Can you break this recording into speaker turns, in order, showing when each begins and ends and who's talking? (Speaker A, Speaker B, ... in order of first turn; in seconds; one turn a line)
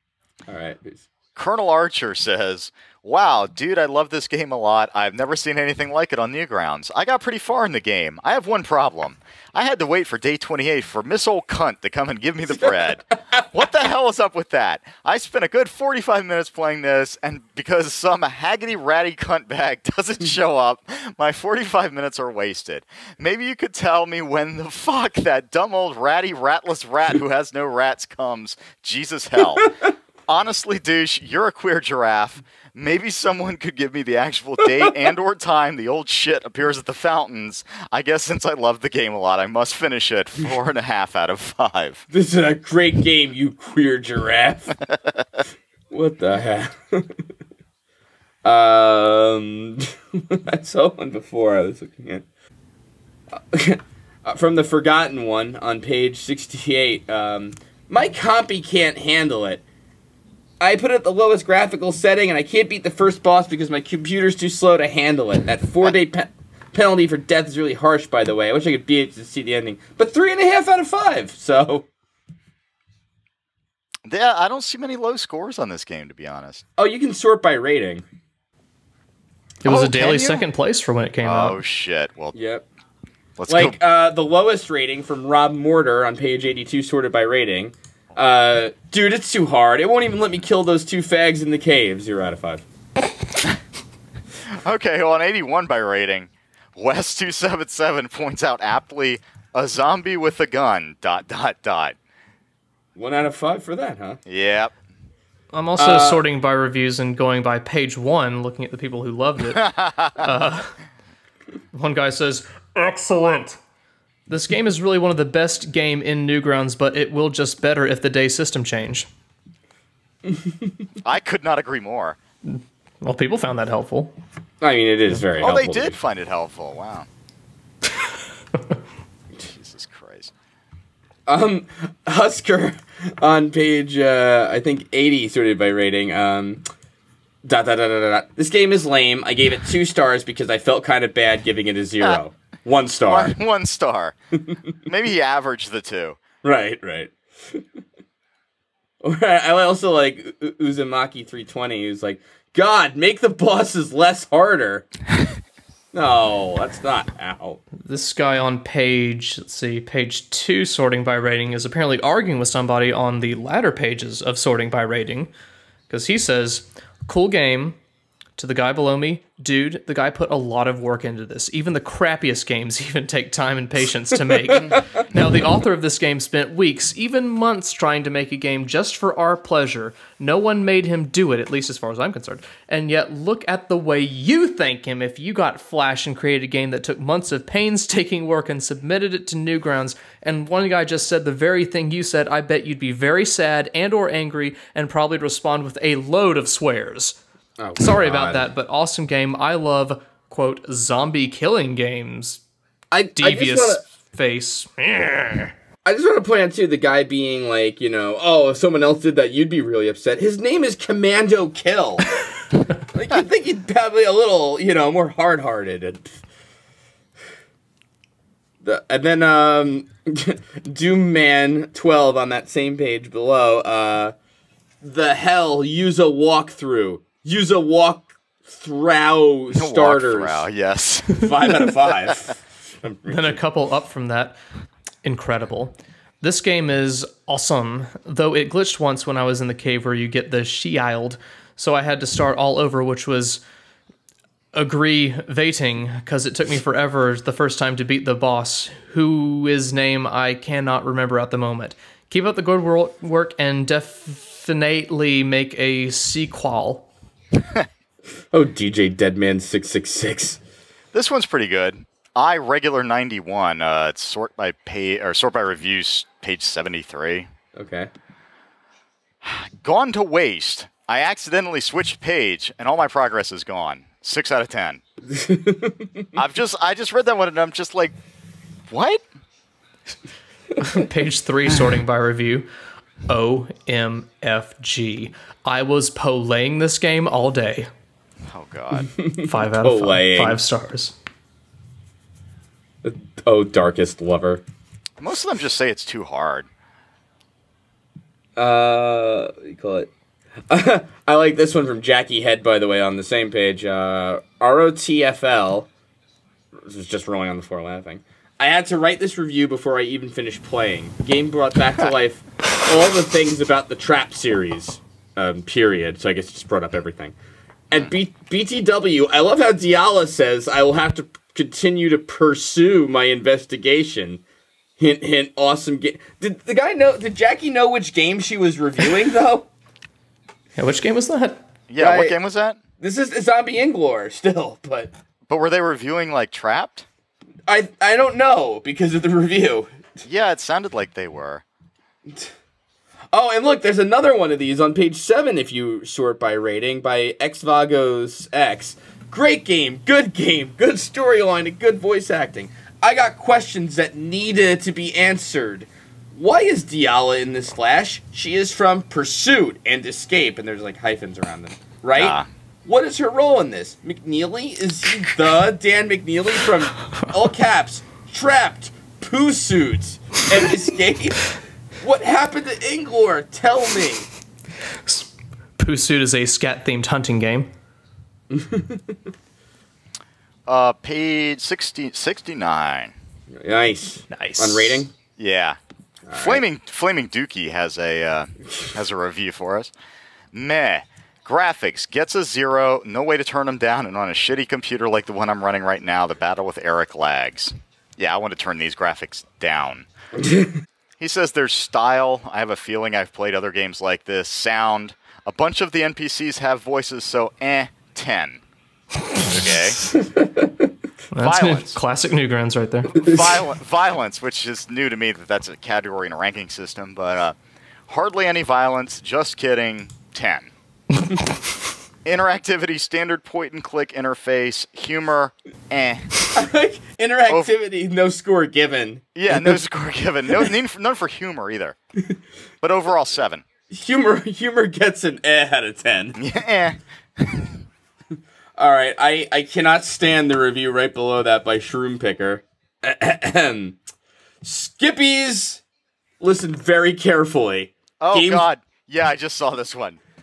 Speaker A: 0.5-1.1
Speaker B: 1.4-42.0
Speaker A: 12.5-13.5
Speaker A: 42.1-44.8
Speaker B: 44.8-45.1
Speaker A: 45.9-47.1
Speaker A: 48.5-52.2
Speaker A: 53.4-59.6
Speaker A: 60.6-71.9
Speaker B: 74.1-76.6
Speaker A: 76.8-78.0
Speaker C: 79.6-81.6
Speaker B: 79.7-80.5
Speaker B: 81.2-82.4
Speaker A: 82.3-82.7
Speaker B: 83.4-83.8
Speaker A: 83.5-92.7
Speaker B: 94.6-102.0
Speaker A: 103.0-104.2
Speaker B: 104.3-104.7
Speaker C: 105.5-110.8
Speaker A: 105.8-106.2
Speaker B: 109.7-110.3
Speaker C: 111.7-113.6
Speaker C: 114.3-119.1
Speaker B: 121.0-122.2
Speaker C: 122.4-124.1
Speaker A: 124.6-126.0
Speaker B: 125.4-127.1
Speaker B: 129.4-130.3
Speaker A: 131.3-136.6
Speaker A: 137.4-143.4
Speaker B: 143.1-144.1
Speaker B: 144.9-146.2
Speaker A: 146.4-147.6
Speaker A: 149.0-154.9
Speaker A: 155.9-157.6
Speaker C: 157.8-165.3
Speaker C: 165.9-167.8
Speaker C: 168.4-197.2
Speaker A: 197.6-198.5
Speaker C: 197.8-202.4
Speaker A: 202.9-203.8
Speaker C: 203.2-205.5
Speaker A: 205.9-212.2
Speaker A: 212.8-216.1
Speaker A: 218.6-224.1
Speaker A: 224.8-230.5
Speaker B: 229.5-231.3
Speaker A: 231.2-233.4
Speaker C: 233.1-234.4
Speaker C: 235.0-243.4
Speaker C: 244.5-256.9
Speaker A: 258.3-260.4
Speaker B: 260.9-267.3
Speaker A: 267.6-267.9
Speaker B: 269.2-274.8
Speaker A: 275.1-276.0
Speaker B: 276.2-277.9
Speaker B: 278.7-279.0
Speaker C: 280.6-282.5
Speaker C: 283.1-287.7
Speaker B: 288.3-288.9
Speaker A: 288.7-290.4
Speaker C: 289.2-290.9
Speaker A: 292.8-294.4
Speaker B: 295.0-296.5
Speaker A: 298.4-299.9
Speaker A: 300.5-305.7
Speaker A: 306.6-317.1
Speaker A: 317.7-324.2
Speaker A: 324.8-329.5
Speaker C: 330.6-331.4
Speaker B: 331.7-332.6
Speaker A: 331.8-332.2
Speaker A: 332.8-334.9
Speaker B: 335.3-336.9
Speaker A: 337.5-339.9
Speaker B: 340.1-341.4
Speaker A: 343.1-374.1
Speaker B: 361.9-362.3
Speaker C: 374.8-377.5
Speaker A: 378.3-378.8
Speaker B: 380.5-382.9
Speaker A: 383.3-384.9
Speaker C: 384.1-384.9
Speaker B: 385.2-385.6
Speaker A: 386.1-386.4
Speaker B: 386.1-389.7
Speaker B: 390.3-399.9
Speaker B: 401.0-408.4
Speaker B: 409.1-409.8
Speaker A: 409.9-410.3
Speaker C: 411.1-413.1
Speaker B: 411.2-411.8
Speaker B: 412.9-417.4
Speaker B: 417.9-420.5
Speaker B: 422.1-426.3
Speaker A: 426.4-429.6
Speaker B: 429.1-431.8
Speaker B: 432.6-433.4
Speaker A: 433.7-436.2
Speaker B: 436.2-437.6
Speaker A: 438.6-443.8
Speaker A: 444.4-445.6
Speaker A: 446.2-448.5
Speaker B: 448.0-450.0